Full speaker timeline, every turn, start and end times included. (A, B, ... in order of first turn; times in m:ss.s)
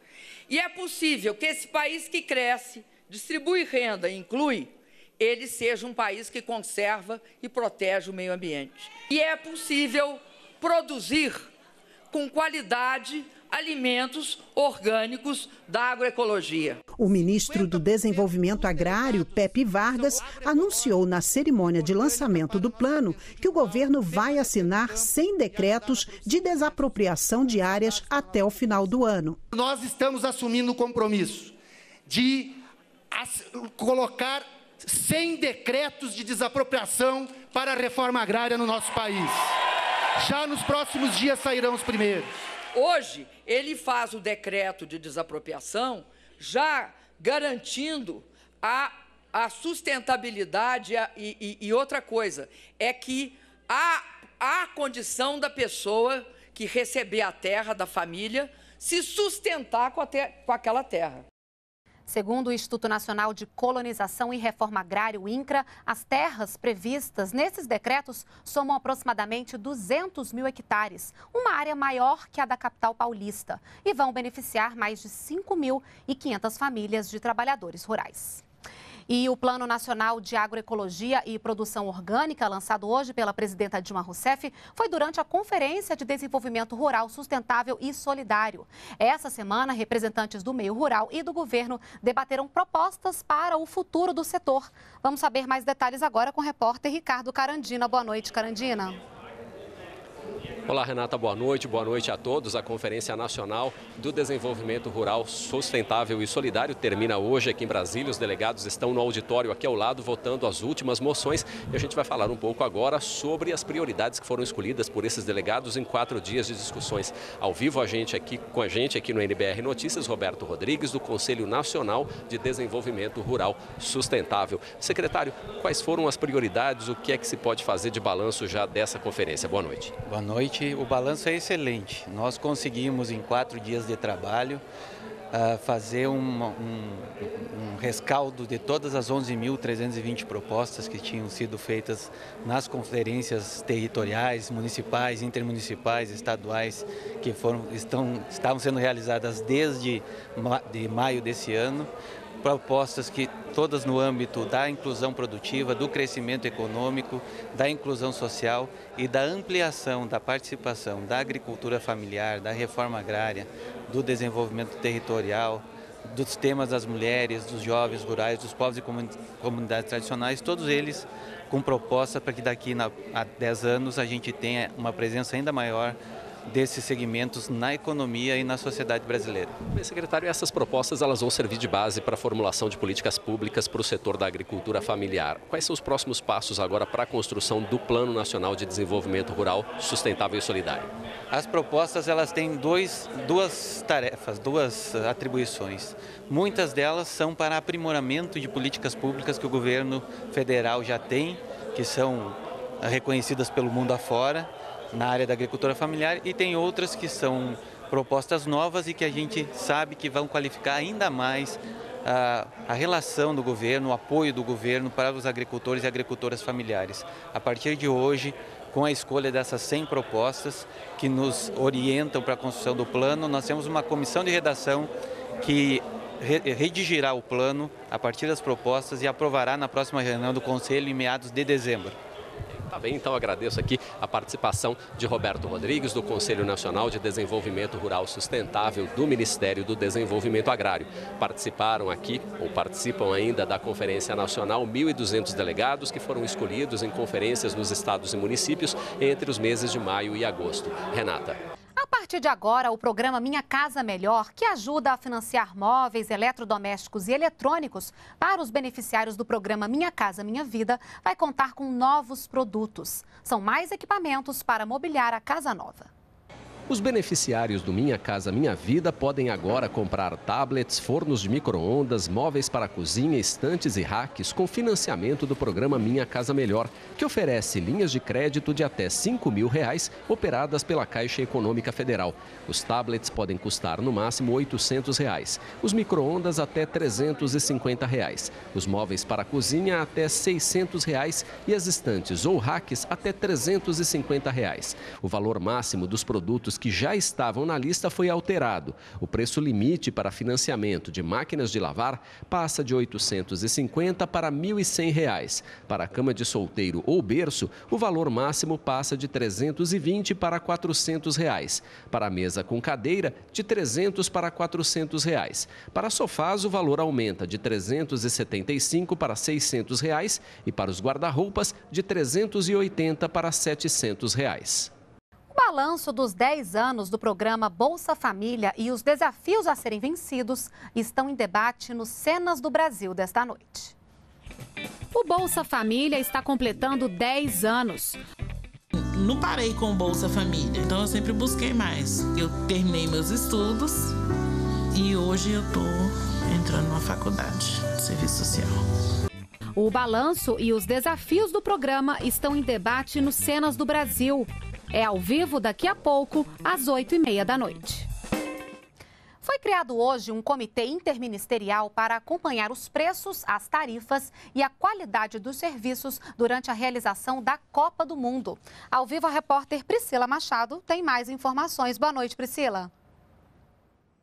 0:00.5-0:11.5 A
0:12.1-0:16.8 A
0:16.9-0:29.4 B
0:29.5-0:31.5 C
0:32.1-0:39.6 C
0:40.2-0:42.4 C
0:42.7-1:01.2 A
1:02.1-1:18.4 D
1:19.1-1:39.0 D
1:40.6-2:09.9 E
2:10.0-2:14.6 F
2:15.3-2:31.9 F
2:32.4-2:59.5 F
2:59.7-3:10.9 E
3:11.3-3:52.0 F
3:52.7-4:11.4 E
4:11.8-4:25.9 D
4:26.7-5:24.7 E
5:25.3-5:33.7 D
5:34.9-5:38.0 D
5:38.7-5:44.0 G
5:44.7-5:48.6 G
5:49.6-5:57.9 D
5:59.2-6:12.7 D